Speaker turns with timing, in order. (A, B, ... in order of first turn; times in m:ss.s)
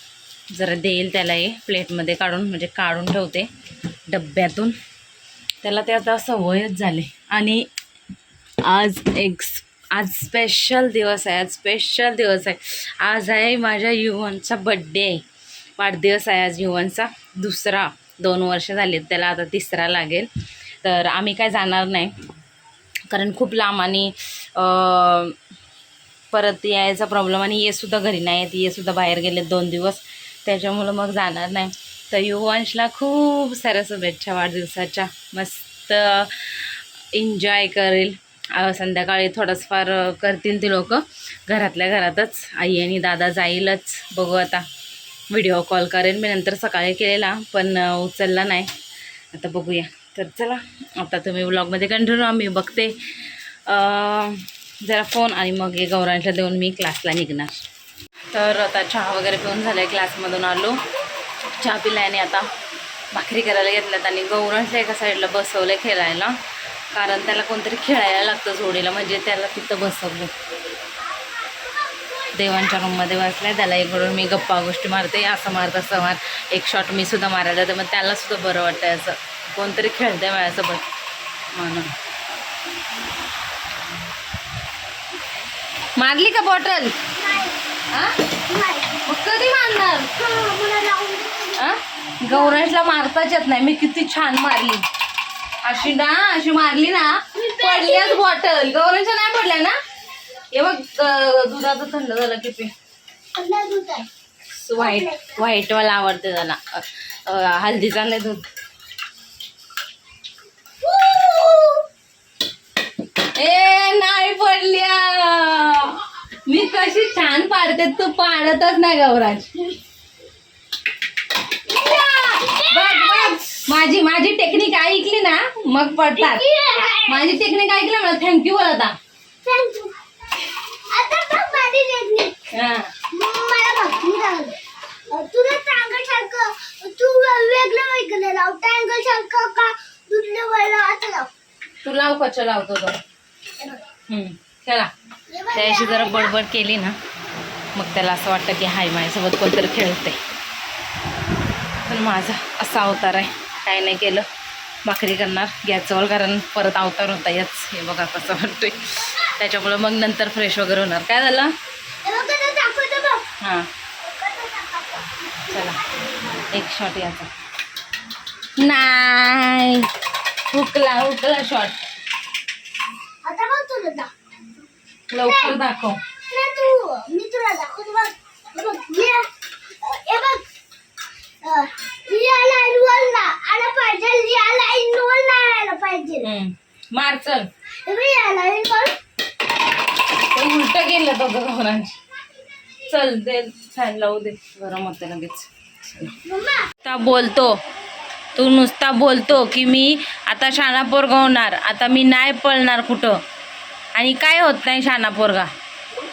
0:00.5-0:03.5 A
0:04.1-0:04.7 A
0:05.6-0:07.7 A
0:08.6-0:15.2 A
0:15.8-0:20.3 A
0:20.8-0:22.2 A
0:23.1-0:25.4 A
0:26.3-0:44.6 A
0:45.3-0:48.7 A
0:49.3-0:57.6 A
0:58.3-1:00.8 A
1:01.6-1:02.5 A
1:03.1-1:06.4 A
1:06.9-1:10.3 A
1:11.2-1:12.3 B
1:12.3-1:20.8 A
1:21.5-1:21.9 A
1:26.0-1:27.0 A
1:27.2-1:27.6 B
1:27.9-1:28.2 A
1:28.5-1:29.1 B
1:29.0-1:30.1 A
1:30.1-1:31.6 B
1:31.6-1:34.8 A
1:32.3-1:32.6 B
1:35.6-1:39.8 A
1:37.3-1:38.2 B
1:40.5-1:42.7 A
1:43.3-1:44.1 B
1:44.5-1:48.5 A
1:44.8-1:45.4 B
1:50.8-1:51.8 B
1:53.3-1:59.7 A
2:01.8-2:03.4 B
2:01.8-2:09.0 A
2:06.2-2:07.3 B
2:09.4-2:12.3 B
2:12.5-2:12.9 A
2:13.1-2:21.3 B
2:21.8-2:23.0 A
2:24.1-2:24.9 A
2:25.3-2:26.3 B
2:25.5-2:27.0 A
2:27.7-2:30.2 A
2:31.8-2:34.2 A
2:34.8-2:41.5 A
2:42.0-2:43.2 B
2:43.4-2:43.7 A
2:44.0-2:45.7 B
2:45.5-2:45.8 A
2:46.5-2:47.3 A
2:48.6-2:49.9 A
2:50.5-2:51.8 A
2:53.2-2:54.1 B
2:55.1-2:56.0 A
2:55.2-2:55.6 B
2:56.3-2:59.3 B
2:59.8-3:00.4 B
3:01.4-3:06.3 B
3:06.2-3:07.5 A
3:07.8-3:09.0 B
3:10.2-3:12.0 A
3:12.8-3:16.2 A
3:16.2-3:16.7 B
3:16.8-3:17.6 A
3:18.4-3:23.2 A
3:24.0-3:25.5 A